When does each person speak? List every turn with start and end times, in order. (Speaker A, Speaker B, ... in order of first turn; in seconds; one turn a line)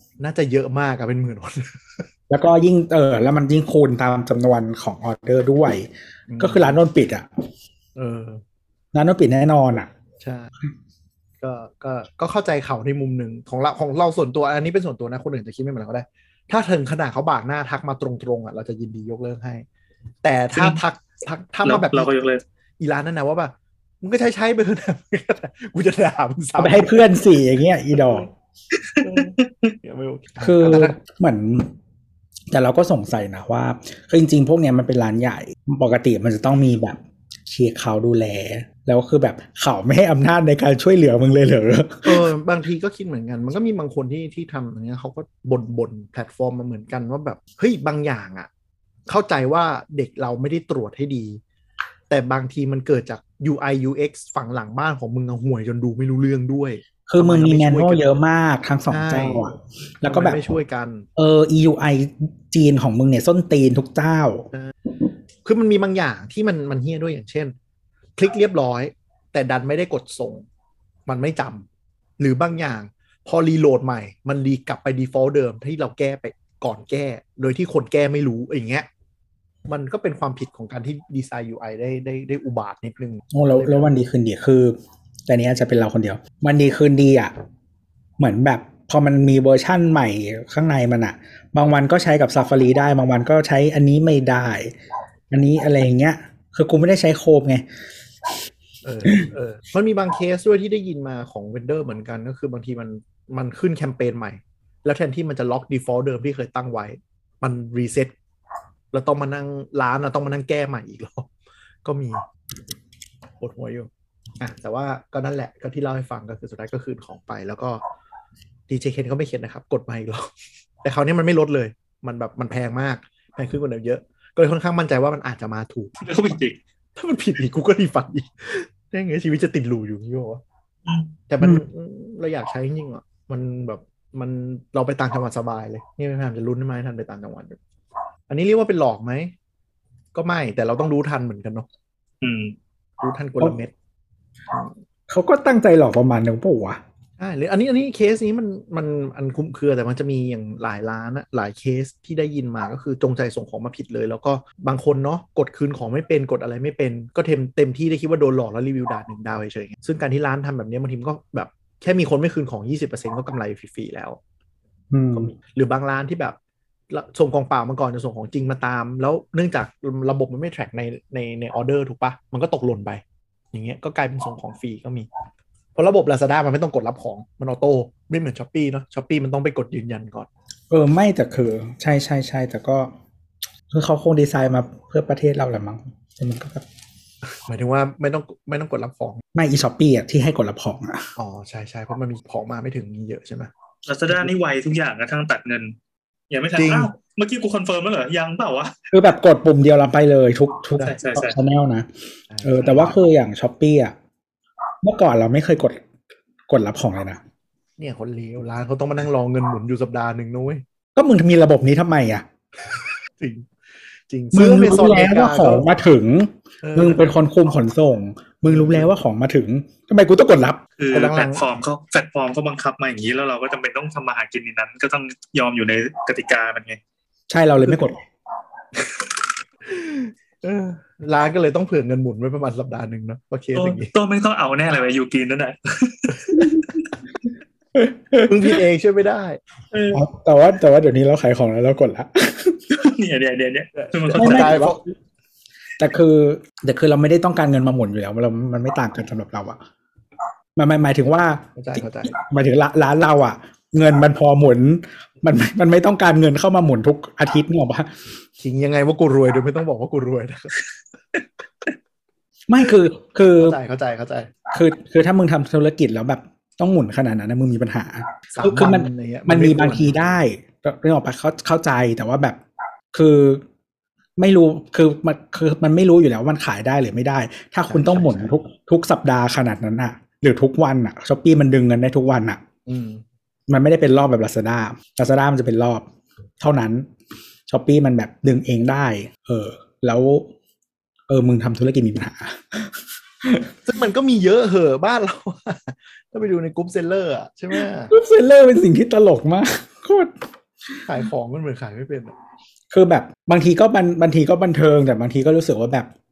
Speaker A: 0.2-2.1
Speaker B: 2.3-5.9
Speaker A: 6.3-6.8
Speaker B: 6.4-7.3
Speaker A: 8.0-8.4
Speaker B: 8.9-9.9
Speaker A: 10.2-10.5
Speaker A: 11.4-19.6
Speaker A: 20.2-22.1
Speaker C: 21.6-22.4
Speaker A: 22.8-27.0
Speaker B: 26.6-28.3
Speaker A: 28.0-28.2
Speaker C: 28.9-29.7
Speaker A: 29.0-31.0
Speaker B: 30.4-31.7
Speaker B: 32.5-42.3
Speaker A: 42.0-48.5
Speaker A: 49.1-51.4
Speaker A: 52.1-58.0
Speaker B: 57.1-60.4
Speaker A: 58.9-59.5
Speaker A: 60.0-61.1
Speaker B: 61.2-64.5
Speaker A: 65.4-67.5
Speaker A: 68.2-70.4
Speaker A: 71.1-71.7
Speaker A: 72.2-78.9
Speaker A: 79.7-83.9
Speaker B: 83.3-84.8
Speaker B: 85.3-87.3
Speaker B: 88.2-94.7
Speaker B: 95.3-97.6
Speaker A: 98.8-108.1
Speaker A: 108.9-111.3
Speaker A: 111.8-112.2
Speaker A: 113.4-117.8
Speaker A: 118.7-120.3
Speaker A: 120.8-126.0
Speaker C: 126.0-126.6
Speaker A: 127.0-130.4
Speaker C: 130.8-131.1
Speaker A: 131.3-137.6
Speaker A: 138.3-139.3
Speaker A: 140.1-141.7
Speaker C: 142.2-142.6
Speaker A: 143.0-143.7
Speaker B: 145.1-146.8
Speaker A: 147.2-164.2
Speaker B: 164.9-165.3
Speaker A: 165.1-166.4
Speaker A: 166.9-173.0
Speaker A: 173.5-175.1
Speaker A: 175.7-180.3
Speaker B: 180.7-182.9
Speaker B: 183.7-186.6
Speaker A: 187.4-189.2
Speaker B: 189.3-191.1
Speaker A: 191.2-193.5
Speaker C: 193.8-195.8
Speaker C: 196.3-198.7
Speaker A: 196.6-196.9
Speaker B: 198.9-201.9
Speaker C: 200.8-201.3
Speaker A: 202.3-202.9
Speaker B: 202.4-203.9
Speaker B: 204.8-205.8
Speaker B: 206.5-207.2
Speaker A: 207.8-210.6
Speaker B: 210.9-212.2
Speaker A: 213.2-213.5
Speaker A: 214.1-215.7
Speaker B: 214.3-220.6
Speaker A: 216.6-217.1
Speaker A: 218.4-218.9
Speaker C: 220.8-226.8
Speaker A: 220.9-221.4
Speaker B: 227.3-228.0
Speaker A: 229.6-233.9
Speaker C: 233.5-236.5
Speaker B: 236.3-236.6
Speaker B: 237.8-238.5
Speaker A: 238.2-239.4
Speaker C: 239.7-240.0
Speaker B: 239.9-242.6
Speaker C: 242.7-244.6
Speaker A: 243.8-244.8
Speaker B: 244.2-244.9
Speaker B: 245.8-249.6
Speaker B: 250.6-257.9
Speaker A: 251.5-252.2
Speaker A: 258.4-260.5
Speaker B: 262.5-263.6
Speaker A: 263.4-264.3
Speaker B: 264.5-272.4
Speaker A: 268.3-270.1
Speaker B: 272.9-273.4
Speaker B: 274.2-282.4
Speaker A: 277.7-278.3
Speaker A: 282.7-283.0
Speaker B: 283.5-285.9
Speaker B: 286.4-286.9
Speaker B: 287.5-290.3
Speaker B: 291.1-293.5
Speaker A: 293.6-297.9
Speaker B: 297.5-300.1
Speaker A: 300.9-302.1
Speaker B: 302.7-305.9